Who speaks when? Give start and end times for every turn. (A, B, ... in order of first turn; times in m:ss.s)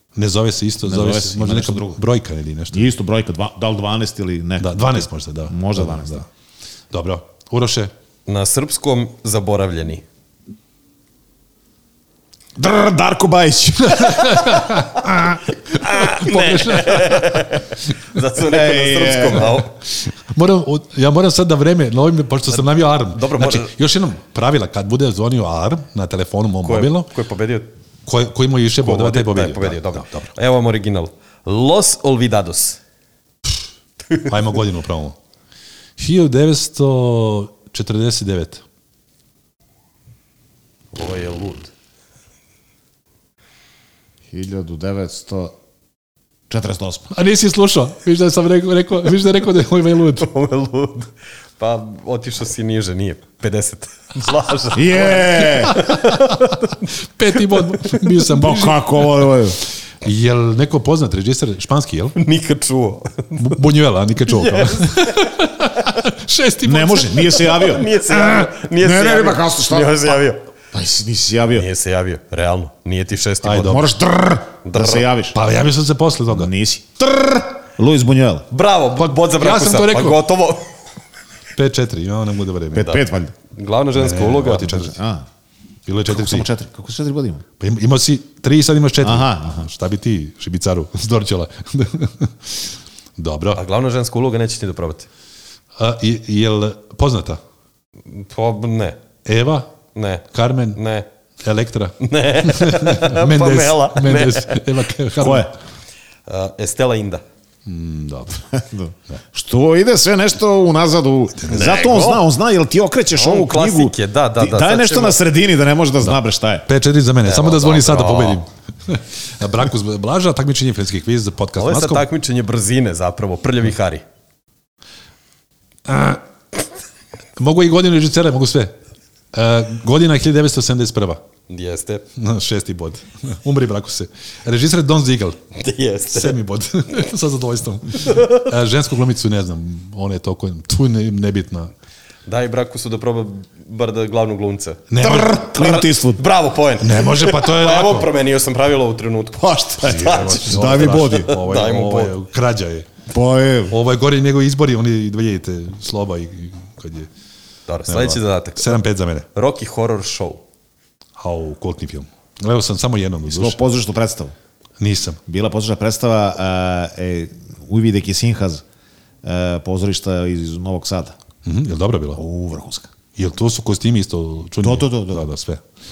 0:00.1-0:02.9 A
0:00.8-0:02.0 B
0:02.7-0:06.2 B
0:04.6-0:06.3 A
0:06.9-0:07.9 A
0:08.2-0:10.0 C
0:12.6-0:14.6 B
0:13.9-0:17.4 A
0:15.6-0:19.8 C
0:18.4-0:19.6 B
0:20.3-0:27.1 A
0:22.5-0:23.7 C
0:26.6-0:27.7 C
0:28.1-0:30.3 A
0:28.8-0:32.8 C
0:34.2-0:35.2 A
0:36.0-0:38.6 A
0:40.9-0:41.7 C
0:44.3-0:45.5 B
0:46.5-0:47.1 B
0:47.1-0:50.3 A
0:50.2-0:56.8 C
0:54.7-0:55.8 B
0:55.5-0:59.4 A
0:58.3-0:59.6 B
1:00.0-1:02.2 A
1:02.1-1:03.6 C
1:03.4-1:07.8 A
1:04.3-1:05.3 C
1:06.6-1:07.9 B
1:07.5-1:10.5 C
1:08.8-1:10.2 B
1:10.7-1:11.6 B
1:11.5-1:13.8 C
1:13.4-1:13.9 A
1:13.6-1:15.4 B
1:14.6-1:15.1 C
1:15.3-1:16.5 A
1:16.3-1:18.5 B
1:18.5-1:20.8 C
1:19.0-1:20.2 A
1:21.6-1:22.9 A
1:22.7-1:23.3 B
1:22.8-1:24.8 C
1:24.0-1:25.0 A
1:24.8-1:25.2 B
1:25.9-1:26.5 A
1:26.1-1:27.4 B
1:27.6-1:33.6 A
1:29.0-1:29.7 B
1:33.5-1:35.1 C
1:35.8-1:37.4 A
1:38.0-1:39.0 C
1:39.2-1:39.7 A
1:39.9-1:41.0 C
1:40.3-1:40.8 A
1:41.4-1:45.5 A
1:42.0-1:44.6 C
1:45.2-1:45.5 B
1:46.3-1:47.2 C
1:47.6-1:48.4 A
1:48.5-1:56.6 B
1:51.4-1:51.8 A
1:51.5-1:52.2 C
1:53.1-1:55.2 C
1:56.0-2:02.0 A
1:57.2-1:58.4 C
2:01.6-2:04.0 C
2:05.9-2:06.2 A
2:07.4-2:08.7 A
2:09.3-2:11.2 A
2:11.5-2:12.0 C
2:12.2-2:15.4 A
2:15.5-2:16.4 C
2:16.1-2:21.7 A
2:18.0-2:18.5 C
2:22.2-2:24.8 C
2:24.9-2:25.4 A
2:25.0-2:26.2 B
2:25.4-2:32.2 C
2:26.8-2:28.1 A
2:29.4-2:31.4 B
2:29.8-2:32.9 A
2:33.1-2:33.8 B
2:33.7-2:37.1 A
2:37.7-2:38.7 C
2:37.9-2:39.3 A
2:39.4-2:40.4 C
2:41.2-2:43.6 A
2:43.3-2:44.3 B
2:44.8-2:45.2 A
2:45.2-2:48.6 B
2:49.2-2:51.2 B
2:51.4-2:52.2 A
2:52.2-2:52.9 B
2:53.2-2:55.6 A
2:54.6-2:55.3 B